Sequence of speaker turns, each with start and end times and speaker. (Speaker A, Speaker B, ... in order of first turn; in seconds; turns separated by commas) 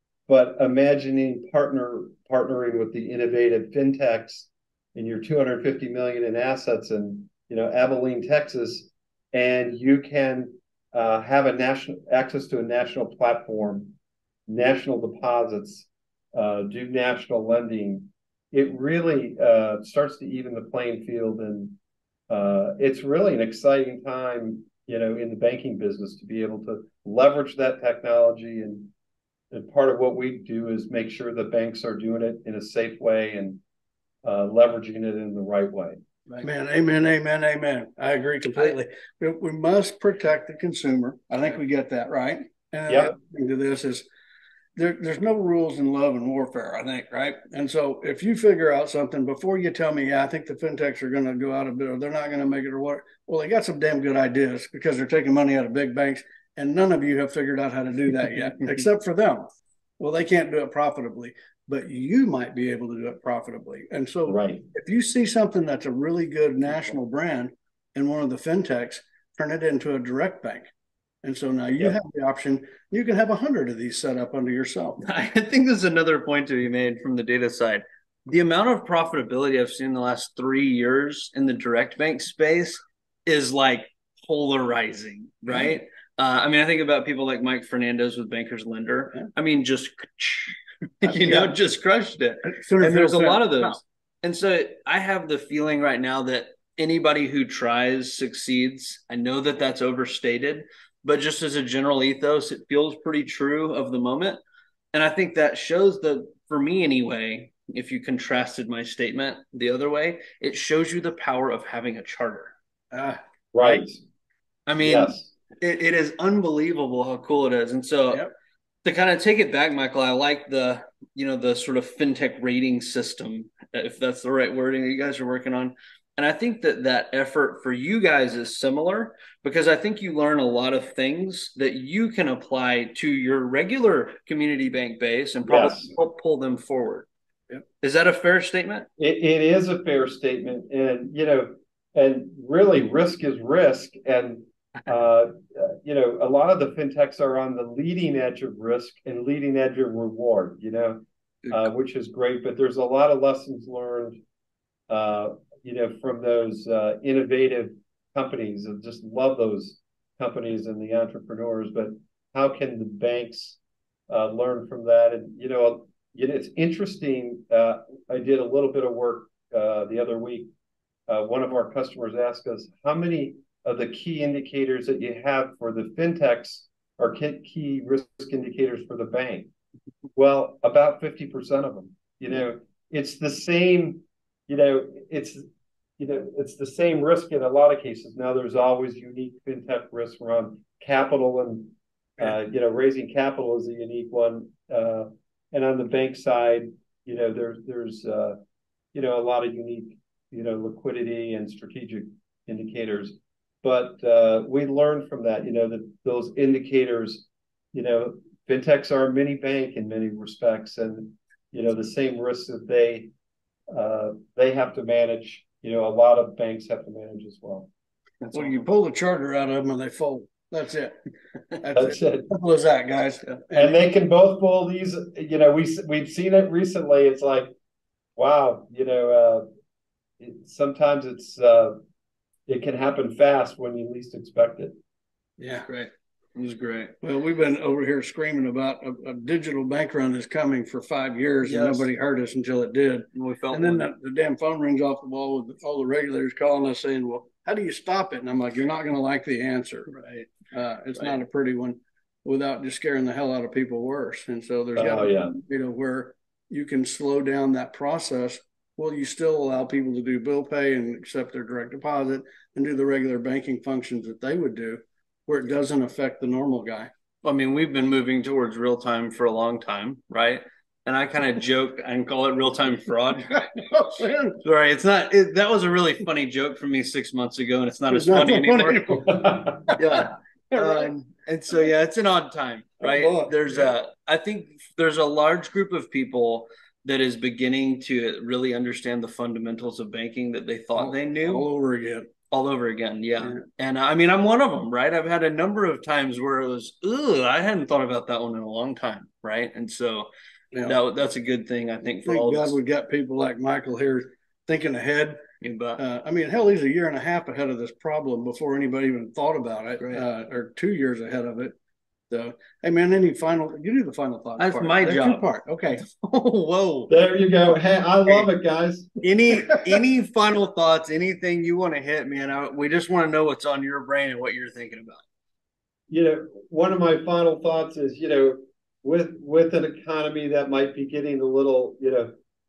Speaker A: 0.3-13.9, Speaker A: 14.5-21.8, Speaker A: 22.3-28.9, Speaker A: 29.5-33.6, Speaker A: 34.2-36.0, Speaker B: 36.4-44.0, Speaker A: 42.9-43.1, Speaker B: 44.8-59.5, Speaker B: 60.0-70.7, Speaker A: 64.3-64.6, Speaker B: 71.2-75.0, Speaker C: 75.0-104.4, Speaker B: 91.0-91.5, Speaker B: 92.5-93.8, Speaker C: 104.9-112.5, Speaker B: 112.9-113.8, Speaker A: 113.5-114.0, Speaker C: 114.7-118.3, Speaker A: 114.8-115.3, Speaker C: 118.8-137.1, Speaker A: 135.4-135.9, Speaker C: 137.8-138.9, Speaker A: 139.0-154.2, Speaker A: 154.9-163.6, Speaker A: 164.1-170.5, Speaker A: 171.1-179.5, Speaker A: 180.2-185.4, Speaker A: 186.0-198.4, Speaker A: 198.9-213.1, Speaker A: 213.7-217.7, Speaker C: 218.2-218.7, Speaker B: 218.3-221.0, Speaker B: 221.6-223.8, Speaker A: 221.8-222.3, Speaker A: 223.6-227.5, Speaker A: 228.2-229.4, Speaker A: 230.2-231.8, Speaker A: 232.5-234.8, Speaker B: 235.4-235.7, Speaker C: 235.7-236.9, Speaker B: 237.0-249.9, Speaker C: 241.4-241.9, Speaker C: 243.2-243.9, Speaker C: 249.9-250.3, Speaker B: 250.5-266.9, Speaker A: 254.8-255.4, Speaker C: 267.2-273.6, Speaker B: 273.3-274.4, Speaker C: 274.4-279.1, Speaker B: 277.9-280.9, Speaker A: 279.1-279.6, Speaker C: 279.8-291.5, Speaker B: 282.8-283.7, Speaker B: 290.8-292.1, Speaker C: 292.3-300.1, Speaker B: 300.5-300.8, Speaker C: 300.6-302.6, Speaker B: 302.1-305.2, Speaker C: 305.4-305.8, Speaker B: 305.8-311.6, Speaker B: 312.1-315.8, Speaker C: 314.4-316.9, Speaker A: 316.9-318.9, Speaker C: 319.0-325.0, Speaker A: 325.9-332.1